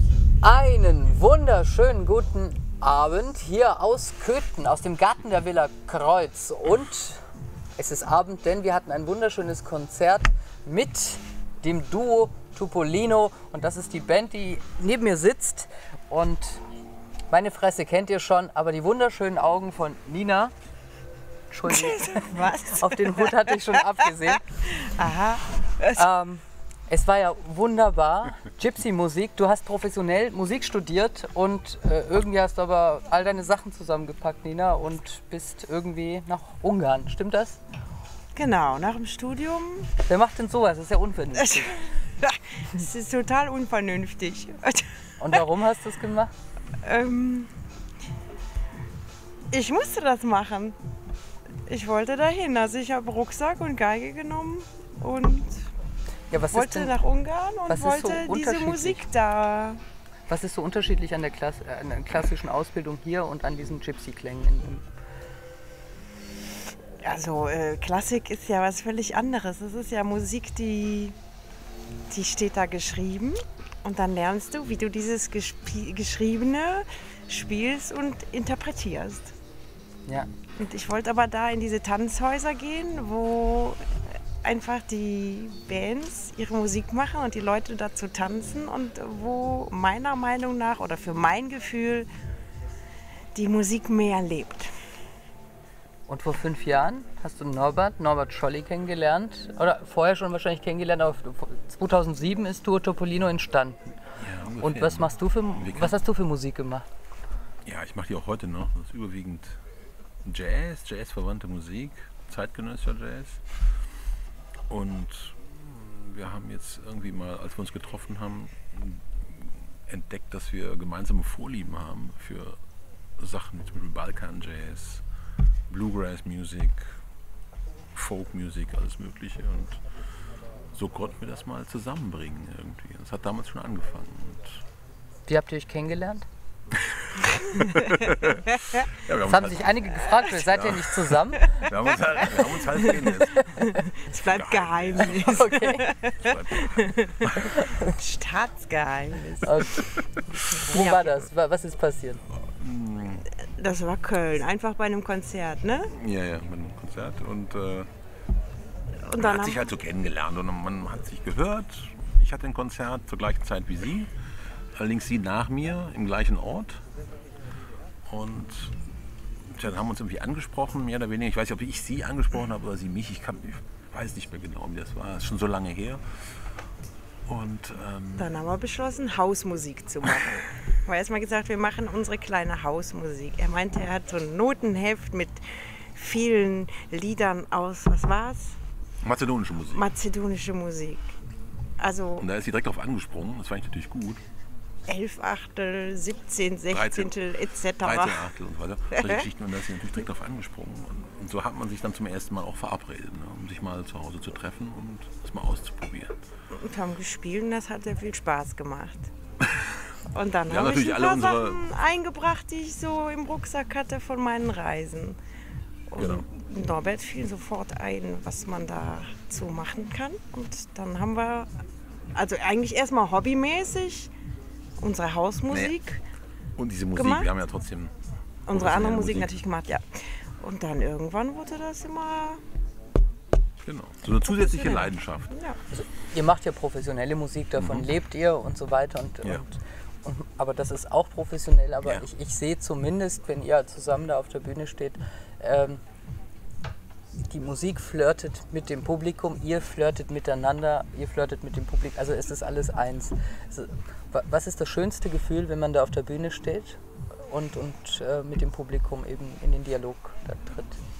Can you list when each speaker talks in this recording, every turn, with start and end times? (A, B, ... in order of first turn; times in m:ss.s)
0:00.4-0:07.2 A
0:07.8-0:16.6 A
0:17.3-0:20.5 A
0:21.5-0:24.4 A
0:21.7-0:23.7 B
0:24.5-0:26.1 B
0:26.0-0:37.6 A
0:38.3-0:39.9 B
0:40.0-0:41.9 A
0:41.4-0:41.6 B
0:42.2-0:45.4 B
0:45.2-0:46.3 A
0:46.8-0:47.5 B
0:49.5-0:50.8 B
0:51.7-0:55.6 B
0:56.3-0:57.0 A
0:56.5-0:59.8 B
0:57.7-0:59.0 A
1:00.3-1:04.8 A
1:07.0-1:11.1 B
1:12.1-1:19.3 B
1:20.6-1:23.8 B
1:24.4-1:32.1 B
1:33.3-1:34.7 B
1:36.1-1:44.0 A
1:44.2-1:45.9 C
1:44.6-1:46.8 A
1:47.6-1:49.6 C
1:50.2-1:53.4 C
1:54.7-2:02.6 C
2:03.2-2:05.0 C
2:05.7-2:07.0 C
2:07.9-2:09.8 C
2:10.7-2:14.6 C
2:15.3-2:16.2 A
2:17.6-2:21.0 C
2:19.2-2:21.6 A
2:21.5-2:23.4 C
2:22.4-2:29.8 B
2:22.6-2:23.8 A
2:24.2-2:25.6 C
2:25.2-2:25.8 A
2:26.2-2:27.6 C
2:29.4-2:29.8 A
2:30.6-2:32.2 A
2:30.7-2:31.1 B
2:32.4-2:33.3 C
2:33.6-2:35.9 B
2:35.9-2:37.9 C
2:39.0-2:39.7 B
2:39.2-2:44.1 C
2:44.8-2:46.8 C
2:48.1-2:48.8 C
2:49.4-2:56.2 C
2:57.2-2:58.3 C
2:58.2-3:05.4 B
3:05.9-3:08.6 B
3:09.0-3:09.8 C
3:09.7-3:11.1 B
3:11.8-3:12.2 B
3:12.2-3:14.2 C
3:14.9-3:18.3 B
3:16.7-3:17.1 C
3:17.8-3:26.2 C
3:18.9-3:19.2 B
3:26.5-3:29.1 B
3:29.4-3:29.8 C
3:30.1-3:35.2 B
3:30.5-3:31.6 C
3:35.9-3:41.5 B
3:36.0-3:36.2 C
3:42.1-3:44.1 B
3:44.8-3:46.0 B
3:45.5-3:45.7 C
3:46.6-3:47.9 C
3:47.0-3:47.3 B
3:48.5-3:52.4 B
3:48.5-3:49.3 C
3:53.6-3:55.3 C
3:54.3-3:55.6 B
3:55.7-4:05.8 A
3:57.6-3:57.9 C
4:07.3-4:20.8 A